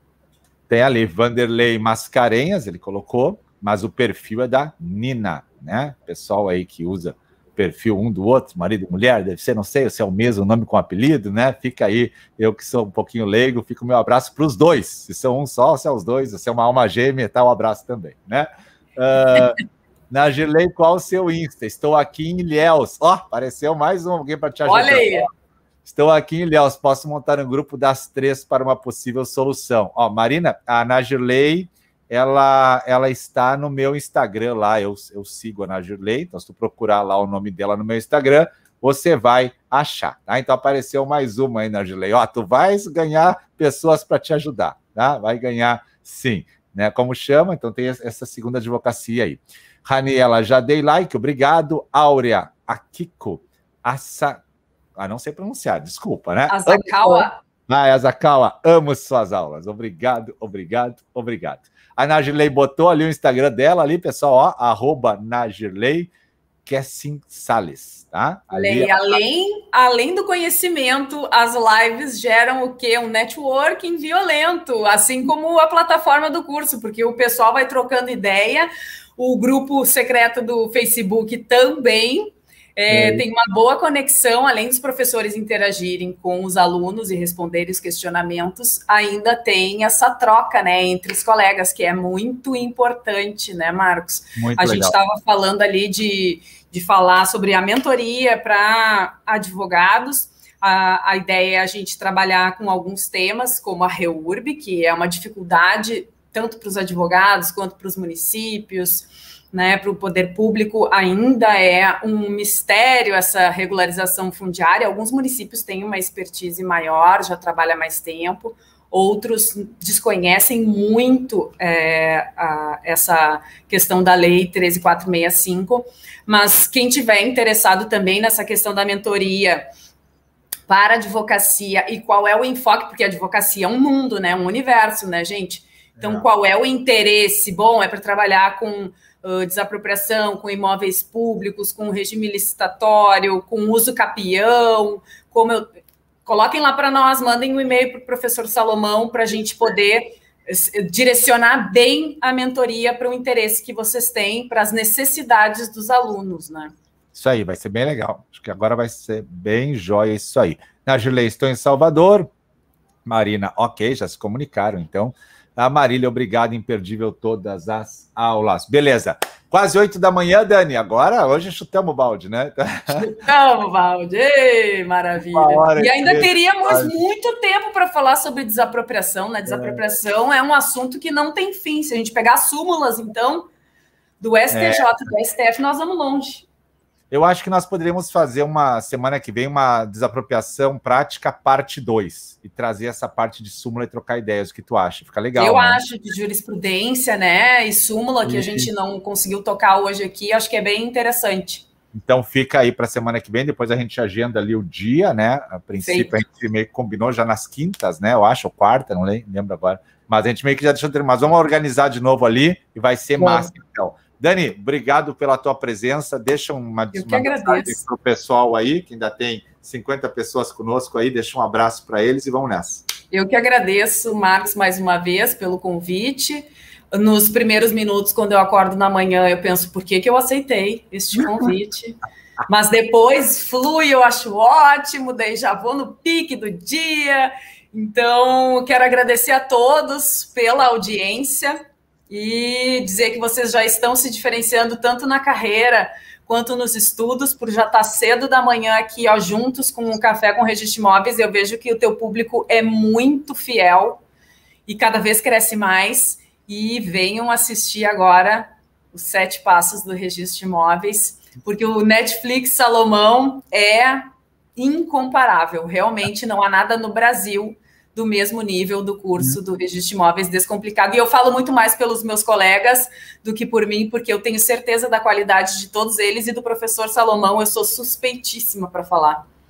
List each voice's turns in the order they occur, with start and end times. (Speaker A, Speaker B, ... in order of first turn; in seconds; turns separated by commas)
Speaker A: 0.7-25.3, Speaker B: 24.6-25.3, Speaker A: 25.8-54.4, Speaker A: 55.0-66.1, Speaker B: 56.5-57.4, Speaker A: 66.7-69.2, Speaker B: 68.5-129.7, Speaker A: 82.9-83.2, Speaker A: 94.3-95.0, Speaker B: 130.7-145.6, Speaker A: 136.0-136.2, Speaker B: 146.2-156.7, Speaker A: 157.1-162.3, Speaker A: 163.1-173.1, Speaker B: 172.9-183.5, Speaker A: 175.3-177.0, Speaker A: 179.5-179.8, Speaker B: 184.2-186.4, Speaker A: 184.5-184.9, Speaker A: 187.1-195.9, Speaker B: 195.3-201.7, Speaker A: 198.2-198.7, Speaker A: 201.9-222.8, Speaker B: 205.8-206.1, Speaker B: 213.2-213.5, Speaker B: 216.9-217.8, Speaker B: 223.1-241.6, Speaker B: 242.1-254.0, Speaker B: 254.7-264.0, Speaker B: 264.6-279.2